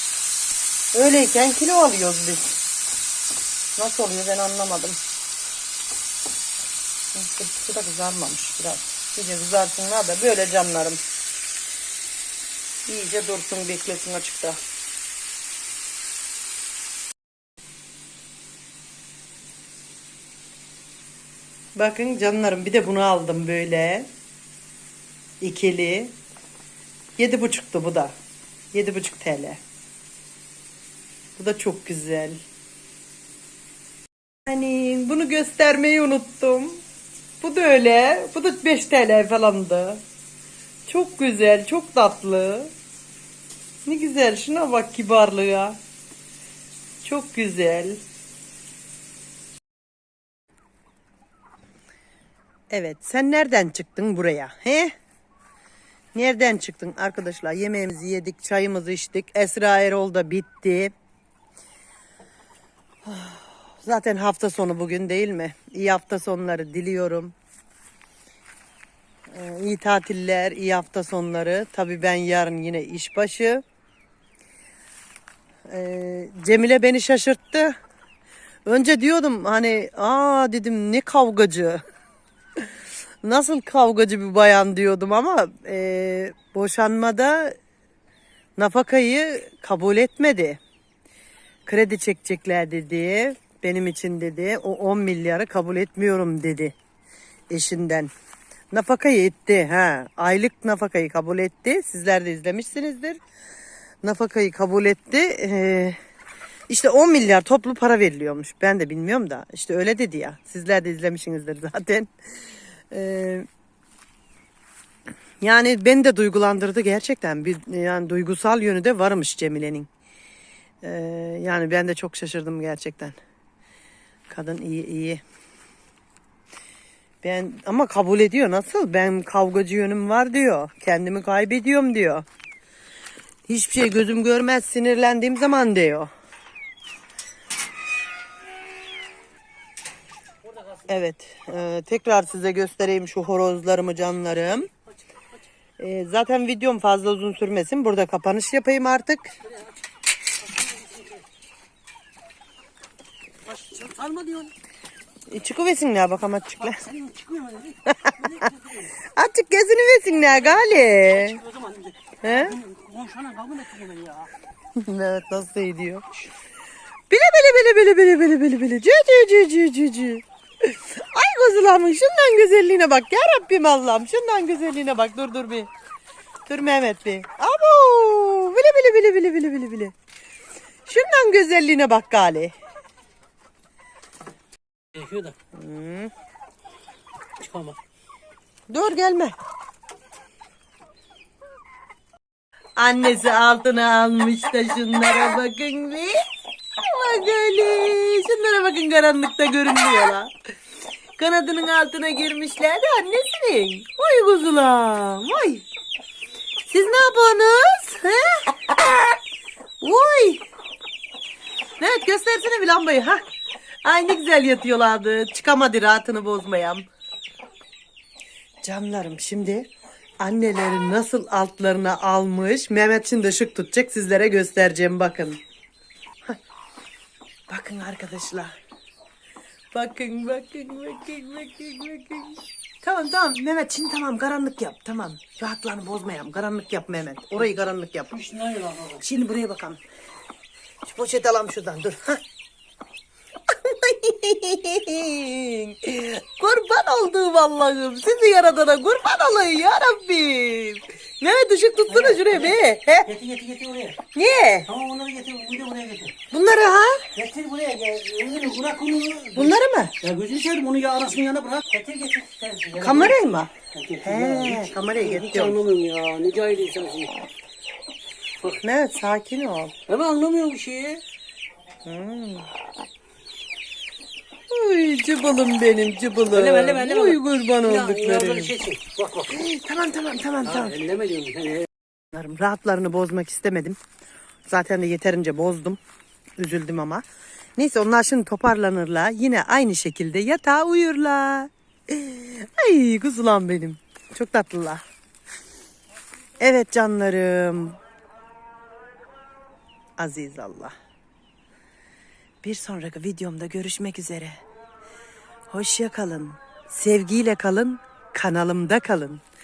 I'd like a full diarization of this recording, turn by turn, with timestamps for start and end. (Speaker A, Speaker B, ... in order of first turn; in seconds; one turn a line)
Speaker A: 0.9-2.5
Speaker A: 3.8-5.0
Speaker A: 7.1-11.0
Speaker A: 12.9-14.6
Speaker A: 21.8-24.1
Speaker A: 25.4-26.1
Speaker A: 27.2-28.1
Speaker A: 28.7-29.6
Speaker A: 31.4-32.4
Speaker A: 34.5-36.8
Speaker A: 37.4-40.0
Speaker A: 40.9-42.7
Speaker A: 43.8-45.8
Speaker A: 47.0-48.0
Speaker A: 52.7-54.9
Speaker A: 56.1-60.9
Speaker A: 63.0-67.3
Speaker A: 69.3-73.6
Speaker A: 75.7-77.7
Speaker A: 78.7-81.8
Speaker A: 83.2-87.6
Speaker A: 88.6-90.6
Speaker A: 91.7-96.7
Speaker A: 97.5-98.1
Speaker A: 98.7-103.2
Speaker A: 104.0-106.0
Speaker A: 106.7-112.1
Speaker A: 112.9-113.5
Speaker A: 115.4-119.9
Speaker A: 120.8-123.2
Speaker A: 124.3-125.2
Speaker A: 127.2-132.2
Speaker A: 133.5-136.1
Speaker B: 140.5-140.8
Speaker A: 140.9-144.7
Speaker A: 145.8-149.3
Speaker B: 149.4-149.7
Speaker B: 150.4-151.2
Speaker B: 153.4-154.5
Speaker A: 155.3-156.8
Speaker B: 156.6-158.9
Speaker A: 159.0-161.4
Speaker B: 160.9-164.3
Speaker A: 162.2-162.6
Speaker A: 164.8-166.0
Speaker A: 167.1-175.7
Speaker A: 176.5-179.9
Speaker A: 180.8-182.5
Speaker B: 184.9-185.3
Speaker A: 185.5-186.1
Speaker B: 187.4-187.8
Speaker A: 188.7-189.3
Speaker A: 192.8-196.2
Speaker A: 196.8-200.3
Speaker A: 201.2-205.6
Speaker A: 206.7-209.1
Speaker A: 209.8-210.4
Speaker A: 211.8-213.2
Speaker A: 213.8-216.9
Speaker A: 218.6-225.4
Speaker A: 227.5-228.5
Speaker A: 229.7-238.1
Speaker B: 238.1-239.0
Speaker A: 239.0-239.8
Speaker A: 240.8-242.2
Speaker A: 243.5-253.1
Speaker B: 251.9-254.0
Speaker A: 254.1-254.7
Speaker B: 254.7-256.1
Speaker A: 256.3-257.1
Speaker B: 257.1-263.2
Speaker A: 259.3-259.9
Speaker A: 262.8-265.6
Speaker B: 263.7-267.1
Speaker A: 268.6-269.7
Speaker B: 269.9-271.0
Speaker A: 271.8-272.5
Speaker A: 274.5-278.5
Speaker B: 276.3-279.4
Speaker A: 279.3-280.8
Speaker B: 280.4-281.7
Speaker A: 282.1-283.8
Speaker A: 284.5-285.8
Speaker A: 286.4-287.0
Speaker A: 287.6-294.8
Speaker A: 296.4-297.8
Speaker A: 300.0-300.7
Speaker A: 302.4-304.4
Speaker A: 305.5-309.2